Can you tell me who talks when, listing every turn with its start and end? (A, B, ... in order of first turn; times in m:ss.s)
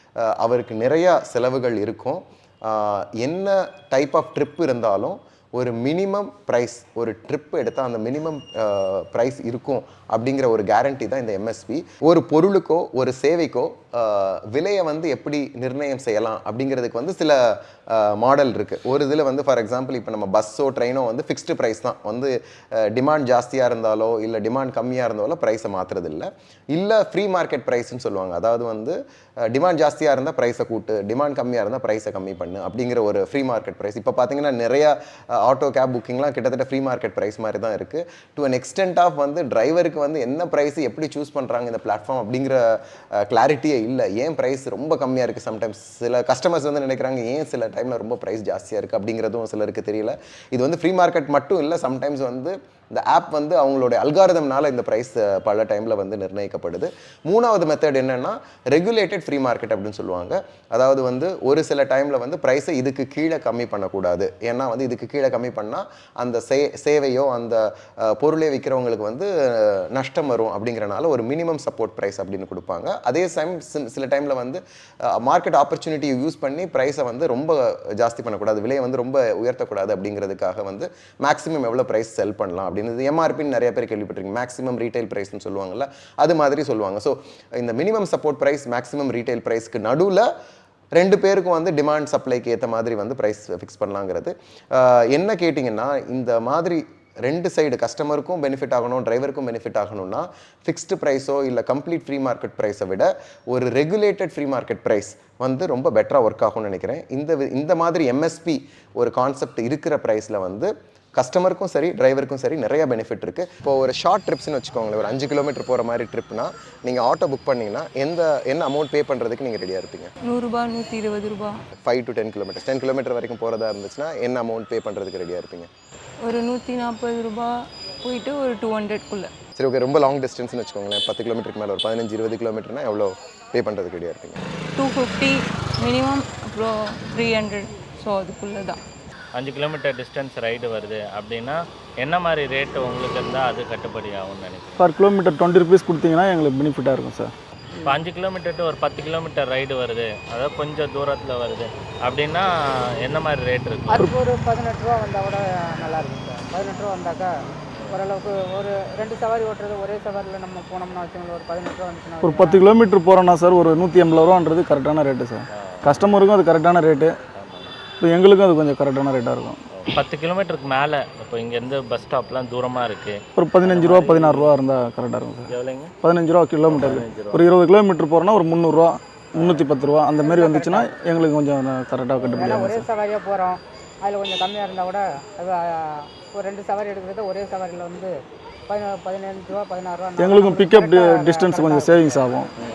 0:00.2-1:30.3 A
1:31.0-2:00.1 A
2:00.2-2:01.6 B
2:01.8-2:05.7 A
2:06.2-2:09.3 B
2:09.6-2:14.4 A
2:14.8-2:18.8 B
2:19.4-2:24.8 C
2:24.8-2:27.3 D
2:27.9-2:32.5 C
2:33.1-2:34.0 C
2:33.9-2:37.3 E
2:37.9-2:42.6 E
2:42.2-2:47.1 D
2:45.5-2:46.1 C
2:47.4-2:47.7 C
2:48.0-2:49.6 D
2:49.8-2:54.6 C
2:53.4-3:02.9 D
2:55.5-2:55.9 C
2:56.7-2:57.4 C
2:59.4-2:59.7 C
3:00.2-3:00.9 E
3:02.4-3:05.6 E
3:06.3-3:08.1 E
3:08.7-3:12.4 E
3:10.2-3:12.5 D